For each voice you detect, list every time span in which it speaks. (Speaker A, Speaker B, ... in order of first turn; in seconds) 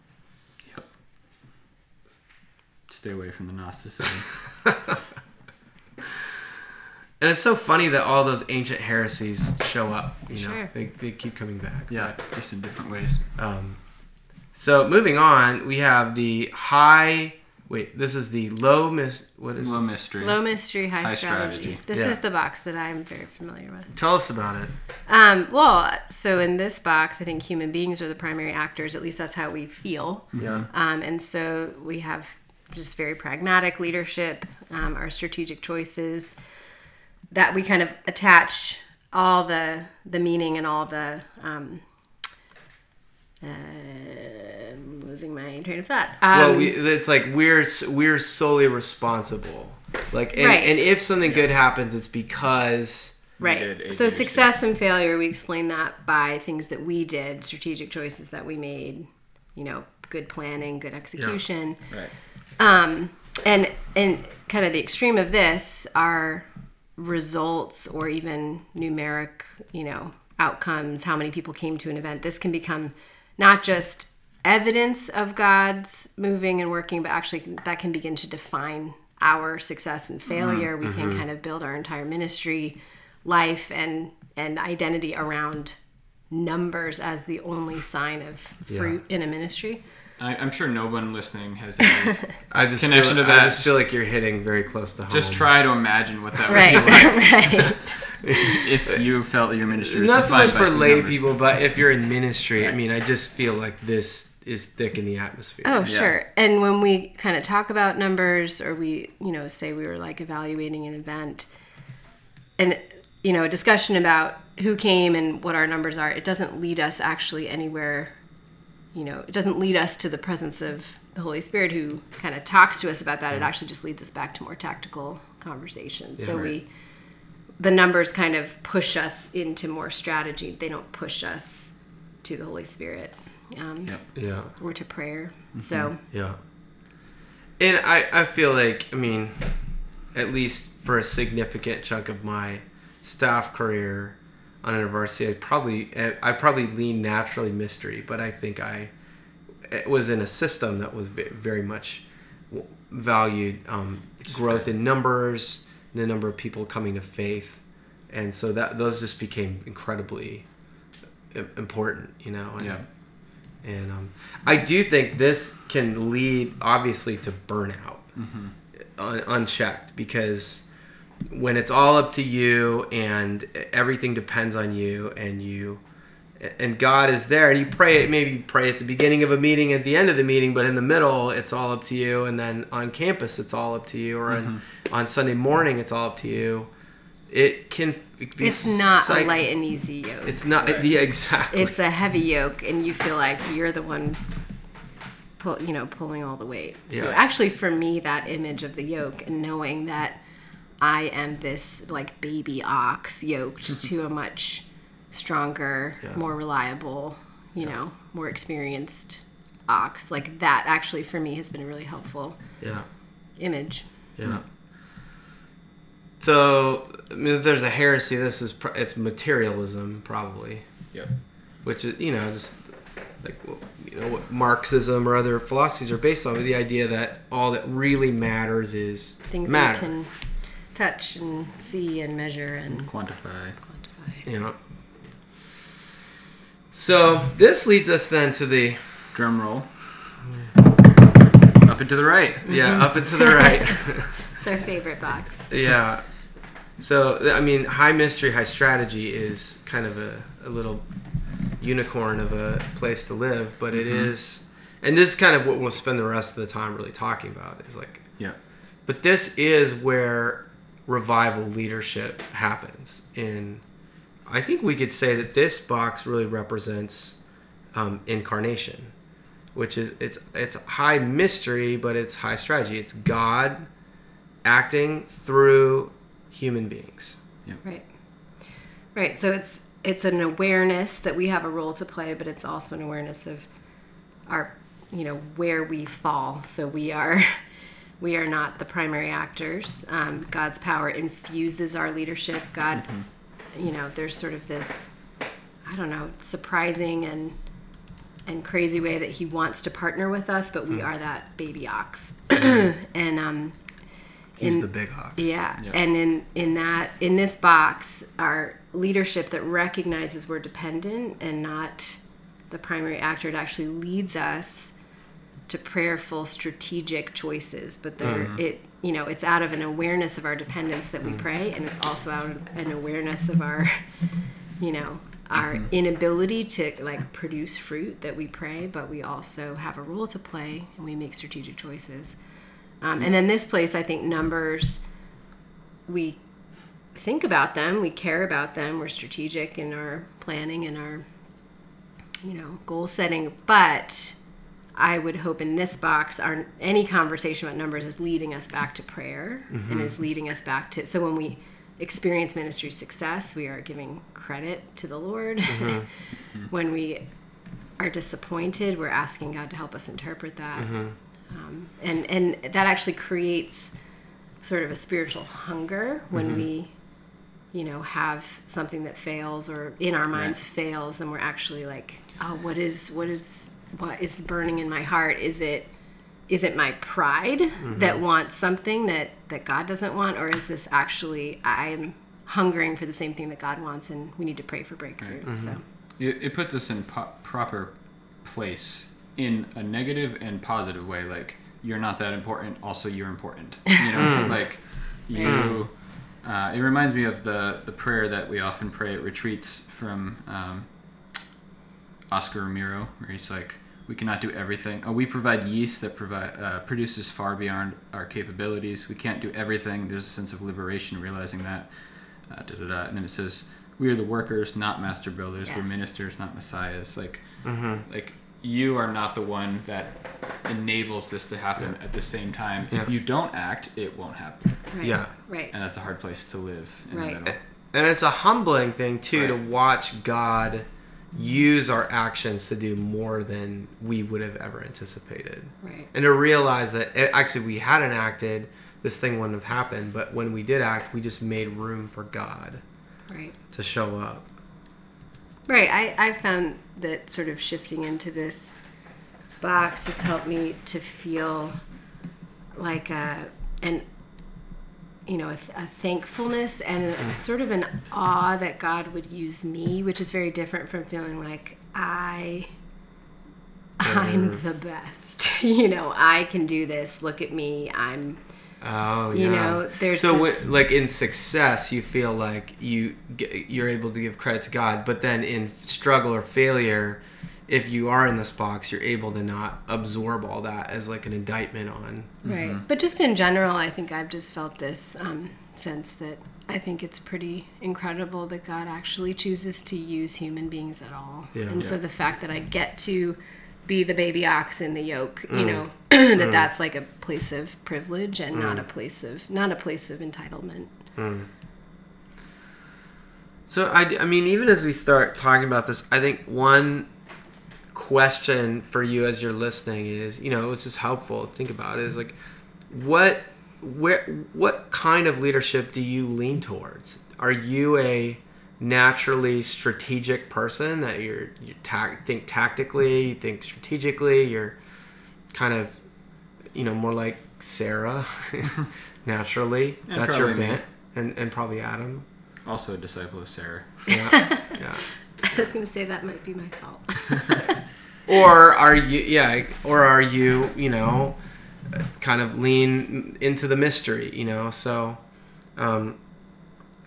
Speaker A: 2.9-4.4, 11.9-13.2, 19.6-21.8, 30.3-30.7, 51.2-51.5, 53.4-54.5, 80.3-80.7, 90.2-93.7, 95.1-97.8, 98.3-101.3, 105.8-106.1, 135.5-135.9, 154.3-154.6, 162.6-162.8, 168.2-168.5, 184.3-184.6, 190.6-190.9, 232.8-233.6, 239.1-240.2, 241.6-242.5, 253.7-254.1, 292.8-293.0, 318.0-318.4, 325.4-325.6, 386.0-400.7, 402.1-424.7, 425.5-427.4, 429.1-429.4, 482.2-482.6, 529.9-530.6, 532.4-533.9
Speaker B: 7.2-12.2, 13.3-14.0, 14.5-19.9, 21.9-22.2, 23.9-24.7, 30.4-30.6, 46.3-53.3, 80.8-81.2, 88.7-88.9, 92.5-95.5, 96.7-97.1, 99.8-105.9, 126.2-126.5, 134.1-134.5, 136.1-136.4, 137.6-148.9, 149.7-160.5, 161.3-162.8, 163.6-168.1, 168.9-170.7, 171.3-175.8, 176.4-186.7, 187.3-189.3, 190.2-191.7, 196.9-197.2, 212.6-212.9, 214.2-214.4, 216.2-220.9, 221.6-229.9, 234.2-234.6, 236.7-239.1, 242.4-244.2, 245.5-246.3, 246.8-250.9, 251.6-258.2, 258.8-263.6, 264.2-267.2, 267.7-268.9, 269.5-273.7, 274.4-277.2, 304.4-305.3, 349.5-349.9, 355.5-355.9, 360.6-360.9, 377.6-378.0, 385.2-385.6, 393.9-394.4, 395.2-395.6, 417.4-417.8, 424.8-425.1, 427.7-442.6, 443.5-444.2, 463.8-464.4, 468.6-482.2, 491.3-491.6, 495.3-495.6, 496.2-496.4, 498.3-498.6, 500.9-501.3, 503.5-506.9, 507.7-512.2, 512.7-524.6, 525.3-525.8, 526.5-532.0, 533.9-534.8, 538.1-541.2, 541.7-545.0, 545.5-546.0
Speaker C: 10.3-10.7, 20.2-23.9, 25.1-36.4, 37.3-41.8, 43.4-46.8, 50.4-50.8, 53.4-61.9, 62.6-85.8, 86.3-89.8, 96.5-98.4, 105.6-111.5, 112.6-118.1, 118.9-126.7, 127.6-136.0, 188.4-190.4, 191.5-194.2, 195.4-200.2, 200.8-212.4, 213.4-214.0, 229.3-230.1, 230.7-232.9, 233.6-234.2, 242.5-245.5, 277.6-277.9, 278.9-283.5, 284.2-287.4, 288.0-292.9, 293.5-294.9, 295.6-297.4, 298.2-303.6, 304.4-314.7, 315.5-323.8, 324.6-332.2, 332.8-334.8, 335.9-336.2, 336.9-341.0, 342.2-344.2, 344.7-355.9, 356.5-357.1, 357.8-363.7, 364.4-366.7, 367.5-375.7, 376.3-385.6, 394.0-394.3, 395.1-395.5, 415.4-415.8, 424.7-425.5, 426.9-427.2, 435.6-435.9, 443.1-443.4, 445.5-448.6, 449.4-451.6, 452.5-453.8, 455.1-462.5, 463.8-468.2, 469.1-470.5, 482.2-500.7, 534.0-534.6, 535.2-537.6